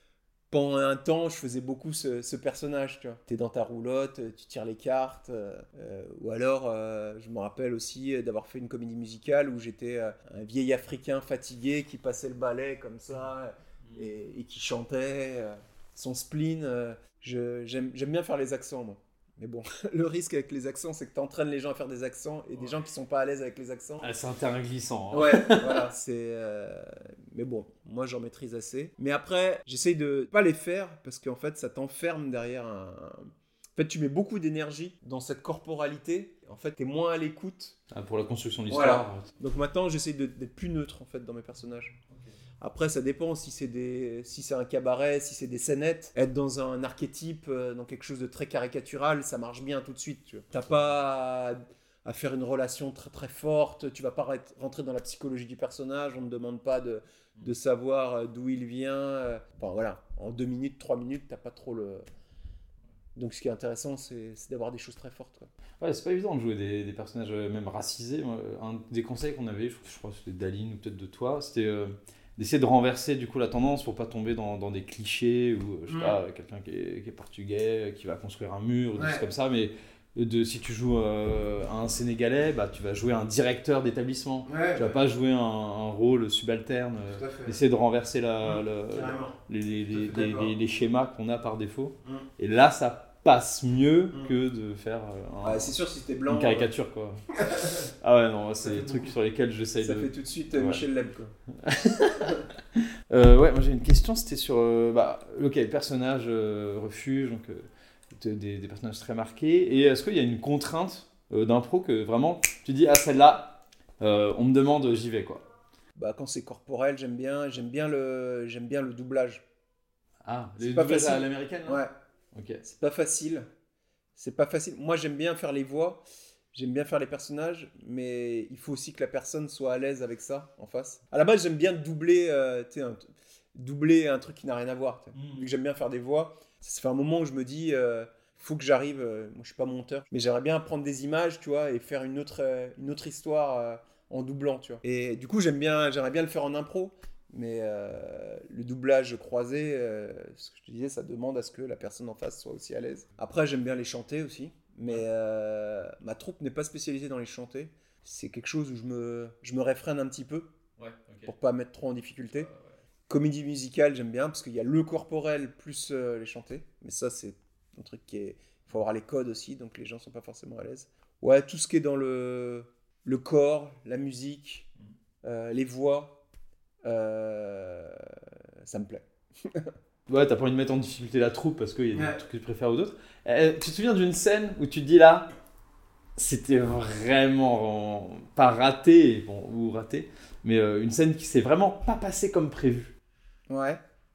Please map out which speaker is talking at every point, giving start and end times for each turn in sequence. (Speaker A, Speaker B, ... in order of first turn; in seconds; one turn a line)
Speaker A: 0.5-24.1
Speaker B: 24.0-25.9
Speaker A: 25.1-37.8
Speaker B: 37.9-39.3
Speaker A: 38.7-42.0
Speaker A: 42.6-62.0
Speaker A: 63.1-65.5
Speaker B: 65.8-95.7
Speaker A: 75.9-76.2
Speaker A: 78.9-79.2
Speaker A: 84.5-85.0
Speaker A: 87.1-87.5
Speaker A: 88.4-89.3
Speaker A: 89.9-90.5
Speaker A: 95.4-96.7
Speaker B: 96.3-100.8
Speaker A: 97.3-97.8
Speaker A: 98.6-99.1
Speaker A: 99.8-101.3
Speaker B: 101.5-115.5
Speaker A: 116.0-119.4
Speaker B: 120.2-121.8
Speaker A: 120.6-121.9
Speaker B: 122.3-122.6
Speaker A: 122.6-123.5
Speaker A: 124.2-160.5
Speaker B: 135.1-135.5
Speaker B: 160.8-161.3
Speaker A: 161.2-162.5
Speaker B: 162.4-162.8
Speaker A: 163.1-174.7
Speaker A: 175.2-176.2
Speaker A: 176.8-179.7
Speaker B: 180.1-185.3
Speaker B: 186.2-192.9
Speaker A: 193.5-193.8